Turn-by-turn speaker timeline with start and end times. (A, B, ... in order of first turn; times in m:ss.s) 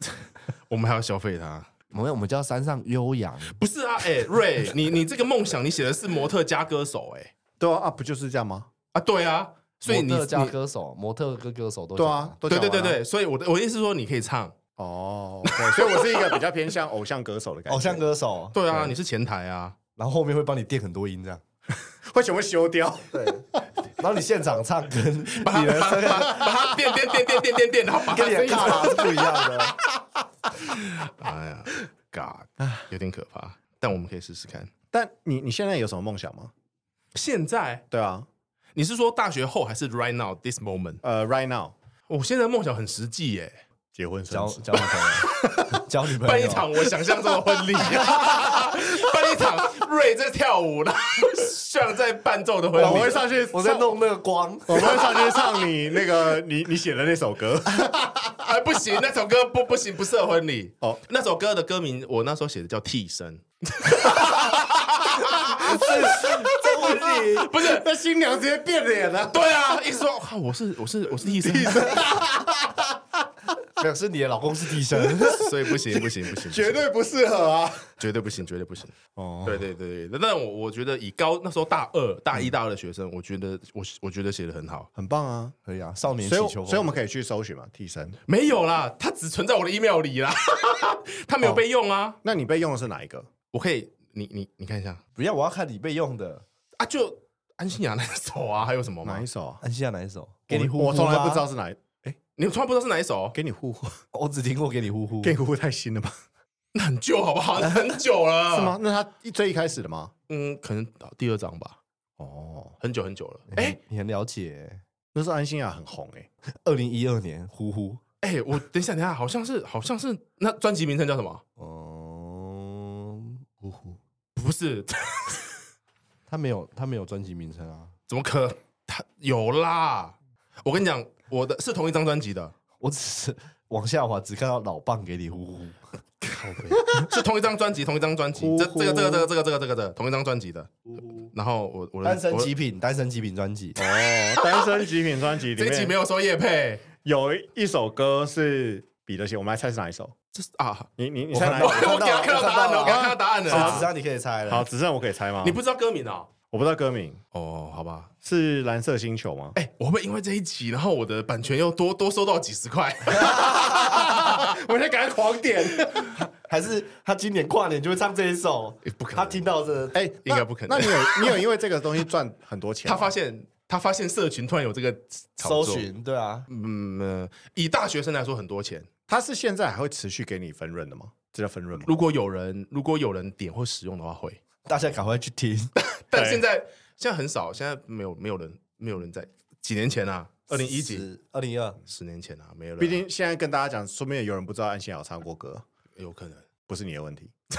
0:00.7-0:01.7 A
0:01.9-0:03.6 B
0:03.5-0:07.3 A
0:07.6-0:08.7 C
0:08.9-0:10.6 A
0:09.9-0:12.4 B
0:12.0-0:13.0 C
0:12.5-0:14.6 A
0:14.8-0:18.0 C
0:15.5-0:16.0 A
0:17.7-0:18.9 B
0:18.5-0:19.8 A
0:20.0-0:21.4 B
0:22.0-0:23.4 C
0:23.1-0:23.5 B
0:24.0-0:26.5 B
0:25.4-0:29.2 A
0:26.4-0:26.6 C
0:28.1-0:29.8 B
0:30.6-0:34.7 A
0:32.6-0:32.9 C
0:34.9-0:36.5 C
0:37.2-0:37.8 A
0:37.9-0:38.3 C
0:38.8-0:41.0 A
0:41.0-0:41.7 C
0:42.1-0:43.6 A
0:44.0-0:45.7 C
0:44.3-0:46.9 B
0:45.5-0:53.2 A
0:48.2-0:48.5 C
0:52.8-0:55.4 B
0:52.8-0:54.0 C
0:54.7-0:58.5 C
0:58.4-1:05.9 A
1:04.0-1:04.4 C
1:05.5-1:09.5 C
1:05.6-1:07.5 B
1:07.4-1:07.9 A
1:09.3-1:12.0 A
1:11.3-1:13.3 C
1:13.8-1:15.5 B
1:15.0-1:15.3 C
1:15.3-1:16.8 A
1:16.4-1:17.9 C
1:18.0-1:24.9 A
1:19.2-1:19.7 C
1:25.0-1:25.6 C
1:25.7-1:27.0 B
1:26.2-1:28.2 C
1:28.3-1:32.2 A
1:32.2-1:33.3 C
1:33.5-1:35.0 A
1:35.2-1:36.4 B
1:36.8-1:39.2 A
1:39.0-1:39.6 C
1:39.6-1:41.5 B
1:40.5-1:42.2 C
1:42.4-1:43.4 A
1:43.3-1:44.0 C
1:44.1-1:45.4 B
1:45.2-1:46.2 C
1:46.7-1:48.8 A
1:48.5-1:50.1 C
1:50.3-1:51.8 A
1:52.2-1:52.8 C
1:52.8-1:53.7 A
1:53.5-1:54.8 B
1:55.1-1:56.3 C
1:56.5-1:58.0 B
1:58.2-2:01.4 A
2:01.6-2:03.4 B
2:03.6-2:04.0 C
2:04.4-2:05.4 A
2:06.3-2:07.9 B
2:08.1-2:12.5 A
2:12.8-2:15.8 B
2:16.2-2:22.5 A
2:18.4-2:19.3 B
2:22.0-2:23.8 B
2:23.8-2:26.0 C
2:25.5-2:26.8 A
2:27.0-2:30.2 C
2:30.3-2:30.9 A
2:31.0-2:32.1 C
2:31.3-2:34.7 B
2:31.5-2:33.9 A
2:32.9-2:33.9 C
2:34.5-2:35.6 C
2:35.4-2:36.3 A
2:36.5-2:37.2 C
2:37.3-2:38.1 A
2:38.2-2:39.6 C
2:39.6-2:44.5 A
2:43.3-2:46.2 C
2:46.2-2:50.0 B
2:48.8-2:49.5 A
2:49.9-2:53.1 C
2:50.2-2:51.4 A
2:52.8-2:55.9 A
2:55.4-2:56.5 B
2:56.5-2:58.9 A
2:59.1-3:01.9 C
3:01.8-3:04.4 A
3:04.7-3:05.7 B
3:05.8-3:11.0 A
3:06.1-3:06.4 C
3:10.5-3:11.8 B
3:11.9-3:13.0 A
3:12.8-3:15.6 C
3:16.0-3:16.5 A
3:16.7-3:17.3 C